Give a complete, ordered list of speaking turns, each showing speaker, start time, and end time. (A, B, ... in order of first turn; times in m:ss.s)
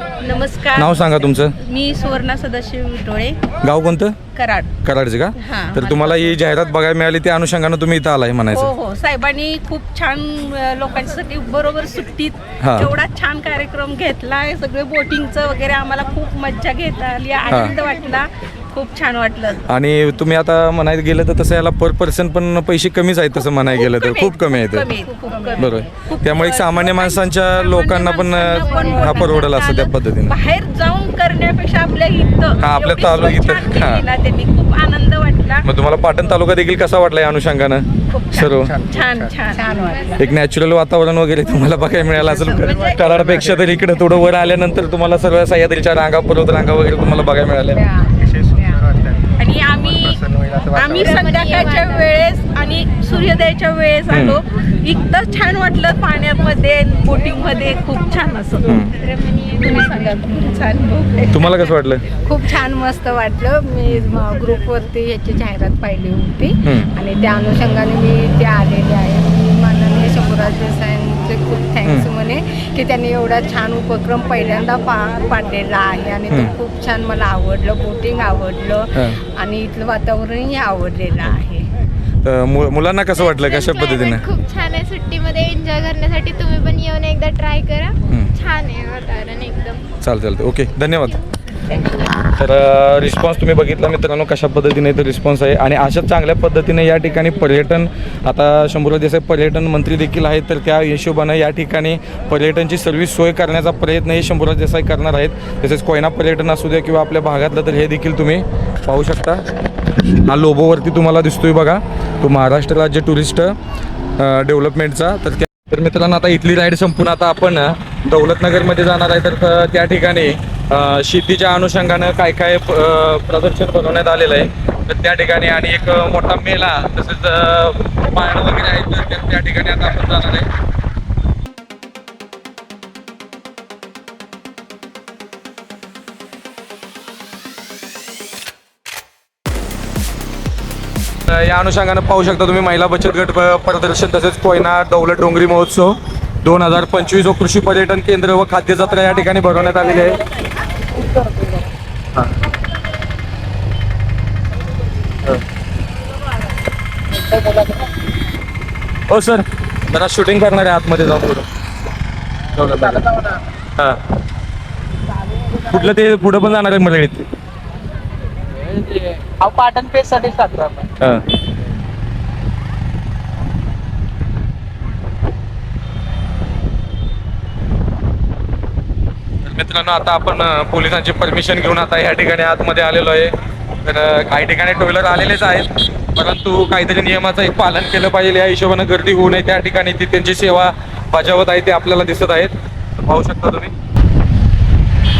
0:00.2-0:03.4 A
0:00.7-0:01.5 B
0:03.6-0:04.2 B
0:04.3-0:04.7 A
0:04.8-0:08.7 B
0:05.4-0:06.3 A
0:08.5-0:19.6 A
0:12.6-0:12.9 B
0:17.5-0:17.7 B
0:19.6-0:24.9 B
0:23.7-0:35.6 A
0:25.6-0:30.4 B
0:28.7-0:29.2 C
0:32.6-0:34.0 B
0:35.6-0:38.8 B
0:38.1-0:40.2 A
0:38.6-0:39.3 D
0:39.6-0:40.2 E
0:40.2-0:47.8 B
0:42.3-0:43.0 A
0:42.5-0:43.7 D
0:47.7-0:48.8 E
0:48.2-0:49.3 D
0:49.4-0:58.7 A
0:49.8-0:51.2 D
0:50.9-0:52.1 C
0:54.1-0:54.4 B
0:58.6-0:58.9 B
0:59.0-1:00.1 C
0:59.5-1:01.7 A
1:01.3-1:02.0 B
1:02.2-1:21.6 E
1:03.8-1:04.1 B
1:06.6-1:06.9 B
1:22.2-1:24.2 B
1:23.2-1:29.8 C
1:30.0-1:31.2 B
1:32.2-1:49.4 B
1:50.2-1:53.6 B
1:54.2-2:10.5 B
2:21.3-2:30.2 B
2:39.1-2:41.4 B
2:42.6-2:43.1 B
2:42.6-2:43.3 D
2:45.7-2:47.3 B
2:48.5-2:50.9 D
2:59.4-3:13.7 B